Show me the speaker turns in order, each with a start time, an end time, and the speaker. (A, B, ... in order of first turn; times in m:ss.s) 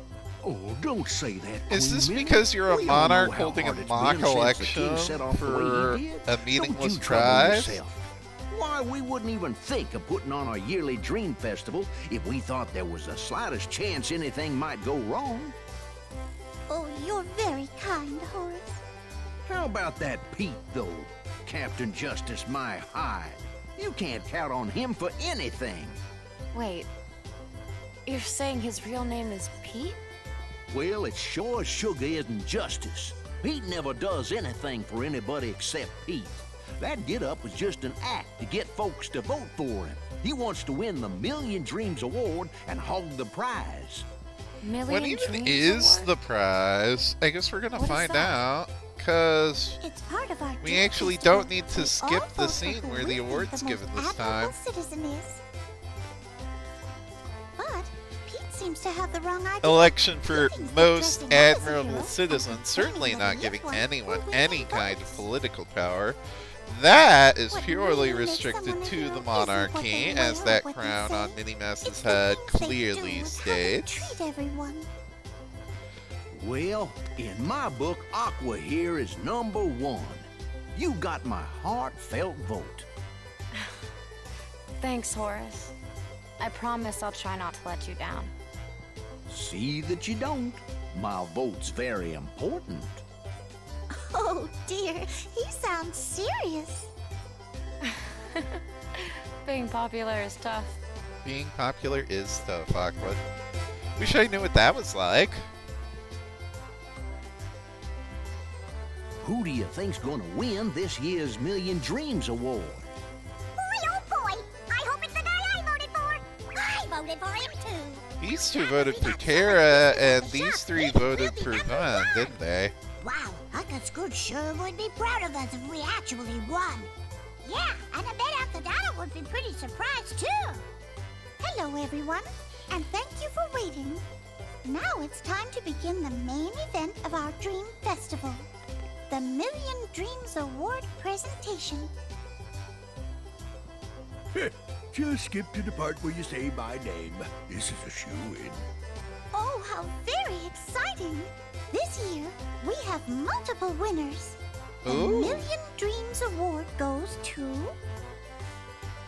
0:00.4-0:15.6 A
0:01.7-0:07.8 B
0:16.7-0:18.8 C
0:19.4-0:26.0 A
0:26.5-0:26.9 D
0:28.0-0:30.0 D
0:30.7-0:44.1 A
0:44.6-0:46.1 D
0:44.8-0:49.8 B
0:47.8-0:48.3 D
0:49.8-0:55.4 C
0:50.6-0:54.6 B
0:57.6-1:05.2 C
0:59.6-1:14.1 B
1:07.5-1:14.9 C
1:16.3-1:22.9 A
1:24.8-1:25.7 D
1:26.4-1:28.3 D
1:29.3-1:33.0 A
1:33.9-1:36.9 C
1:37.8-1:40.8 D
1:41.2-1:43.2 B
1:44.0-1:45.5 B
1:49.2-1:52.9 A
1:53.6-2:02.3 C
1:58.2-2:02.7 B
2:03.0-2:06.9 C
2:07.4-2:10.6 C
2:11.4-2:14.0 C
2:14.6-2:18.5 C
2:19.1-2:21.9 C
2:24.3-2:28.6 E
2:29.3-2:37.8 C
2:34.8-2:35.5 B